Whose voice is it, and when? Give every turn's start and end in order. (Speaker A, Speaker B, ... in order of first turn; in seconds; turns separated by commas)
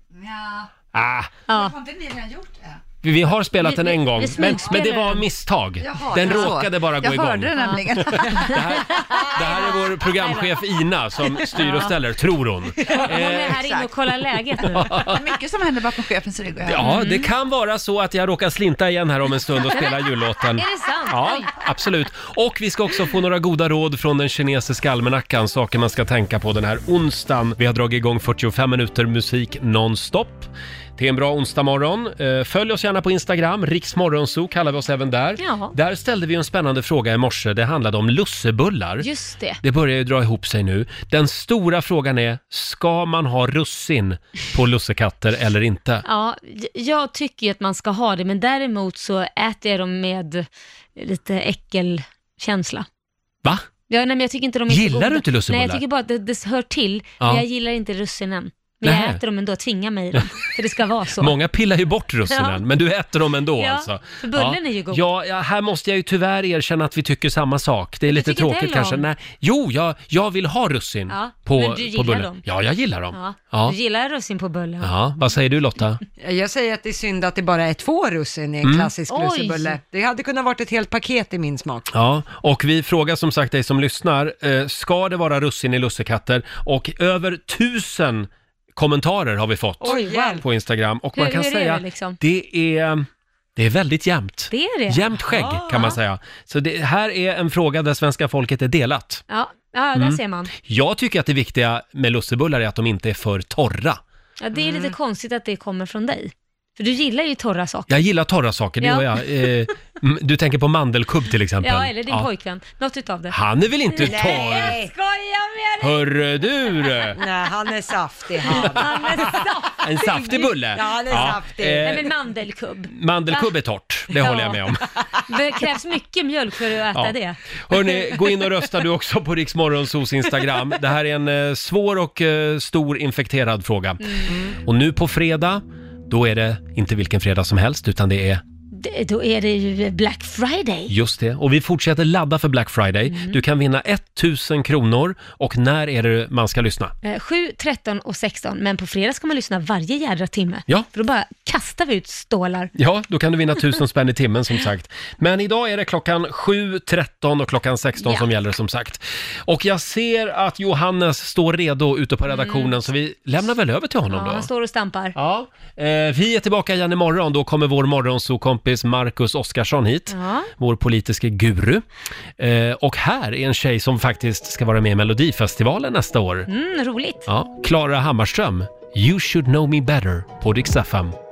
Speaker A: 0.2-0.7, Speaker B: 0.9-1.3, Speaker C: 1.5-1.8, Speaker A: 1.5-2.8, Speaker B: 3.0-13.6, Speaker C: 3.6-5.2, Speaker A: 5.8-8.9, Speaker C: 6.2-6.5, Speaker C: 7.5-7.8, Speaker C: 8.4-10.6, Speaker C: 11.5-11.9, Speaker C: 12.9-15.0, Speaker A: 12.9-14.0, Speaker B: 14.6-15.2, Speaker A: 14.9-16.9, Speaker B: 16.6-39.1, Speaker C: 16.8-17.3, Speaker C: 19.7-20.0, Speaker C: 20.5-21.5, Speaker C: 35.4-35.7, Speaker C: 39.0-39.6, Speaker B: 39.6-46.0, Speaker C: 46.0-52.9, Speaker C: 53.9-61.3, Speaker B: 54.7-55.8, Speaker B: 58.8-59.2, Speaker B: 61.2-73.8, Speaker C: 62.3-62.6, Speaker C: 63.6-65.0, Speaker C: 68.1-69.0, Speaker C: 71.1-72.4, Speaker C: 73.1-74.9, Speaker B: 74.8-76.0, Speaker D: 76.2-81.9, Speaker B: 78.6-78.9, Speaker C: 79.1-79.7, Speaker B: 81.9-99.2, Speaker C: 89.8-90.4, Speaker D: 89.8-90.4, Speaker C: 91.1-92.2, Speaker C: 94.5-95.1, Speaker D: 95.6-95.9, Speaker C: 99.3-100.5, Speaker B: 99.9-104.0, Speaker C: 104.4-107.9, Speaker B: 107.9-112.3, Speaker C: 108.8-109.1, Speaker C: 111.6-113.3, Speaker B: 113.3-114.8, Speaker C: 113.9-116.0, Speaker D: 114.0-114.9, Speaker B: 115.8-117.2, Speaker C: 116.8-117.1, Speaker D: 117.2-119.0, Speaker B: 118.5-119.1, Speaker C: 118.5-120.5, Speaker B: 119.8-122.1, Speaker D: 120.4-122.0, Speaker C: 121.8-123.5, Speaker B: 122.9-124.9, Speaker C: 124.1-124.6, Speaker C: 125.2-127.4, Speaker B: 127.7-138.4, Speaker C: 138.7-140.9, Speaker B: 140.9-146.9, Speaker C: 143.1-143.4, Speaker C: 147.0-152.7, Speaker B: 152.8-164.5, Speaker C: 158.0-158.3, Speaker C: 162.3-162.8, Speaker C: 164.1-165.1, Speaker B: 165.1-171.8, Speaker C: 170.1-170.5, Speaker B: 172.4-176.5, Speaker C: 176.5-177.2, Speaker B: 177.3-181.2